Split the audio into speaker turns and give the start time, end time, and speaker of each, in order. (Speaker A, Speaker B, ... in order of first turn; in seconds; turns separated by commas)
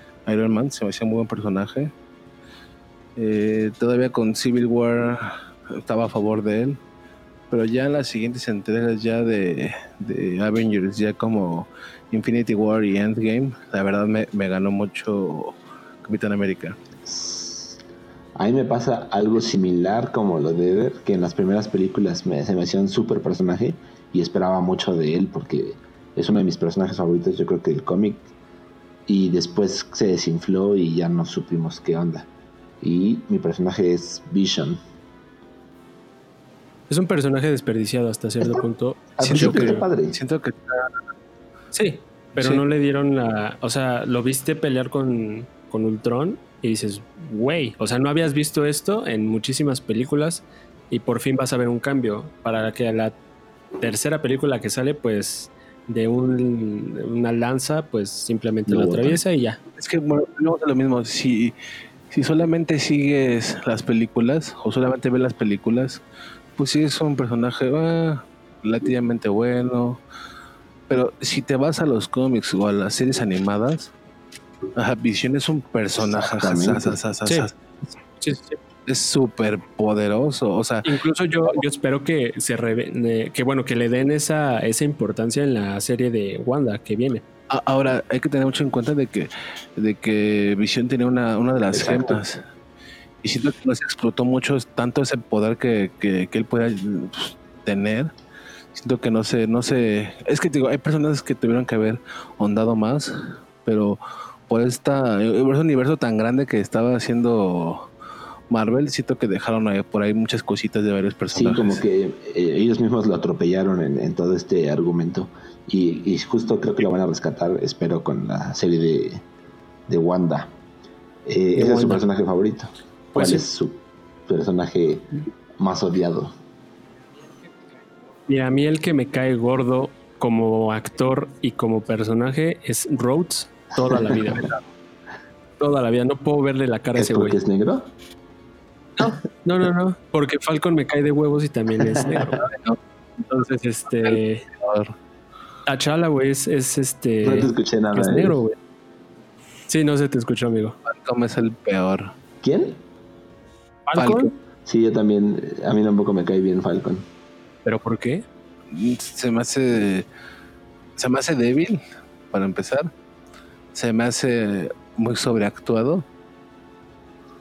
Speaker A: 0.3-1.9, Speaker A: 3.2-6.8, Speaker A: 7.5-16.8, Speaker B: 17.0-17.8, Speaker B: 18.4-28.3, Speaker B: 29.1-32.3, Speaker B: 32.8-34.8, Speaker C: 36.9-39.8, Speaker B: 39.2-40.2, Speaker A: 39.2-40.9, Speaker C: 41.7-53.1, Speaker C: 53.8-59.6, Speaker B: 58.7-59.2, Speaker A: 59.8-61.5, Speaker A: 62.1-66.0, Speaker A: 66.6-70.0, Speaker A: 70.9-73.9, Speaker A: 74.8-77.5, Speaker B: 76.0-77.0, Speaker C: 78.2-78.6, Speaker A: 78.9-80.9, Speaker C: 80.8-87.2, Speaker A: 87.5-92.4, Speaker B: 91.7-92.2, Speaker A: 93.2-98.1, Speaker A: 98.7-107.9, Speaker A: 108.5-111.8, Speaker B: 111.3-119.2, Speaker B: 119.9-120.5, Speaker B: 121.3-126.3, Speaker C: 121.6-122.0, Speaker C: 123.1-123.5, Speaker C: 128.3-134.6, Speaker B: 133.9-134.4, Speaker C: 135.6-137.4, Speaker B: 136.9-137.9, Speaker C: 139.0-142.5, Speaker B: 141.8-142.3, Speaker A: 142.4-142.8, Speaker C: 143.2-144.5, Speaker A: 144.0-144.9, Speaker C: 145.7-148.6, Speaker B: 147.2-148.4, Speaker C: 149.7-150.8, Speaker A: 150.8-152.1, Speaker B: 152.4-152.8, Speaker C: 153.9-154.3, Speaker A: 154.0-154.3, Speaker B: 154.7-157.0, Speaker C: 157.7-158.2, Speaker A: 158.7-160.1, Speaker A: 161.0-161.8, Speaker A: 162.3-162.9, Speaker A: 163.7-166.1